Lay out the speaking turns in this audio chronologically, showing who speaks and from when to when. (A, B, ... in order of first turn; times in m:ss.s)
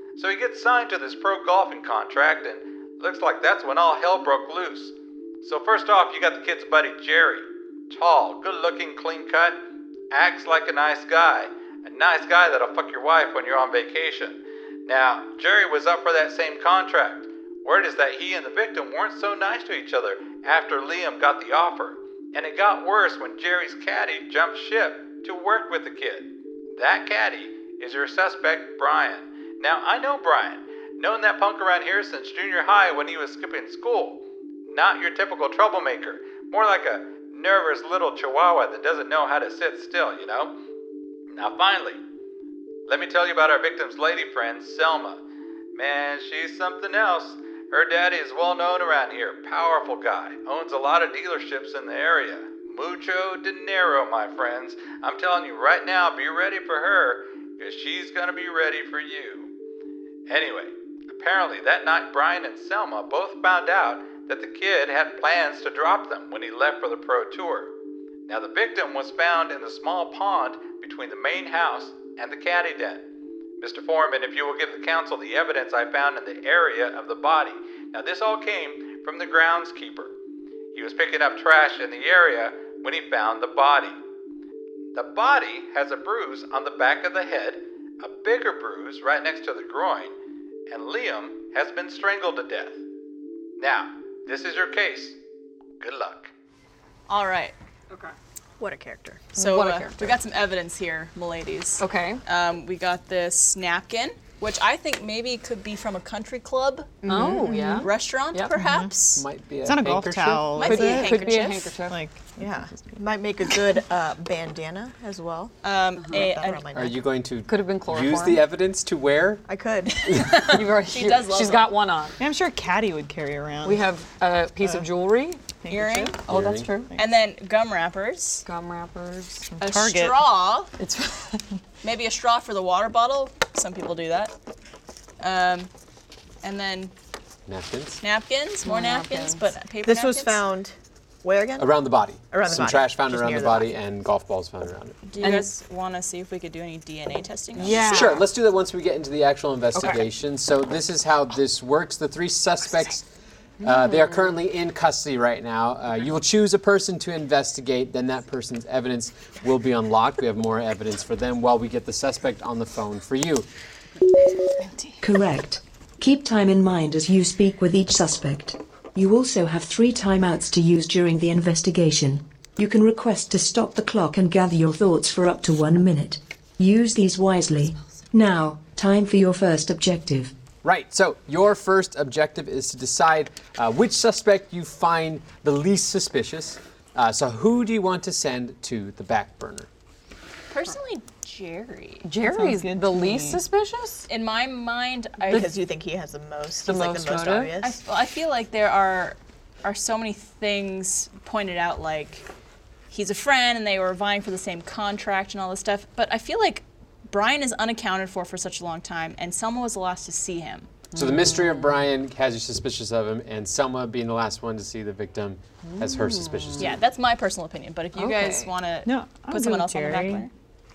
0:00.2-0:40.6 A
0:41.3-0:42.0 A
0:42.9-0:45.2 A
0:45.8-0:59.5 A
1:00.3-1:07.7 A
1:08.3-1:13.0 A
1:13.6-1:20.1 A
1:20.7-1:24.0 A
1:24.9-1:30.1 A
1:30.7-1:32.8 A
1:33.6-1:35.2 A
1:35.8-1:36.3 A
1:37.1-1:37.6 B
1:38.6-1:39.3 C
1:39.4-1:40.2 D
1:39.4-1:49.2 B
1:41.8-1:42.2 D
1:47.0-1:47.8 C
1:47.0-1:48.6 D
1:48.6-1:48.9 E
1:49.2-1:50.5 F
1:49.6-1:51.2 E
1:50.6-1:51.8 B
1:50.6-1:52.0 D
1:51.9-1:53.0 E
1:52.4-1:55.5 C
1:55.6-1:56.6 B
1:56.0-1:56.3 D
1:56.1-1:57.0 C
1:56.7-1:59.5 F
1:57.5-1:58.4 D
1:59.5-2:00.2 C
2:00.2-2:02.2 D
2:00.2-2:01.8 B
2:01.3-2:03.9 E
2:03.6-2:05.5 D
2:04.6-2:04.9 E
2:05.6-2:06.2 E
2:05.7-2:06.2 B
2:06.3-2:06.7 F
2:06.3-2:06.9 D
2:07.0-2:08.4 B
2:08.4-2:09.5 D
2:09.5-2:10.3 E
2:09.6-2:10.7 B
2:10.8-2:11.4 D
2:11.8-2:14.3 B
2:15.2-2:15.7 B
2:16.4-2:16.9 B
2:17.5-2:18.0 F
2:18.0-2:20.4 B
2:18.6-2:19.4 D
2:19.8-2:23.7 C
2:21.6-2:25.0 F
2:25.1-2:28.2 B
2:25.2-2:25.5 D
2:27.6-2:28.3 D
2:27.9-2:33.1 F
2:29.8-2:30.0 D
2:33.6-2:34.2 D
2:33.6-2:43.5 F
2:45.0-3:00.3 G
3:00.6-3:09.7 F
3:10.5-3:12.1 B
3:12.0-3:14.1 D
3:12.2-3:13.4 E
3:14.1-3:15.6 B
3:15.3-3:17.8 C
3:16.6-3:17.6 D
3:17.6-3:22.2 B
3:22.9-3:30.7 B
3:30.9-3:31.8 D
3:31.0-3:36.8 F
3:35.6-3:36.7 D
3:36.6-3:40.3 B
3:37.9-3:38.5 D
3:38.8-3:40.3 E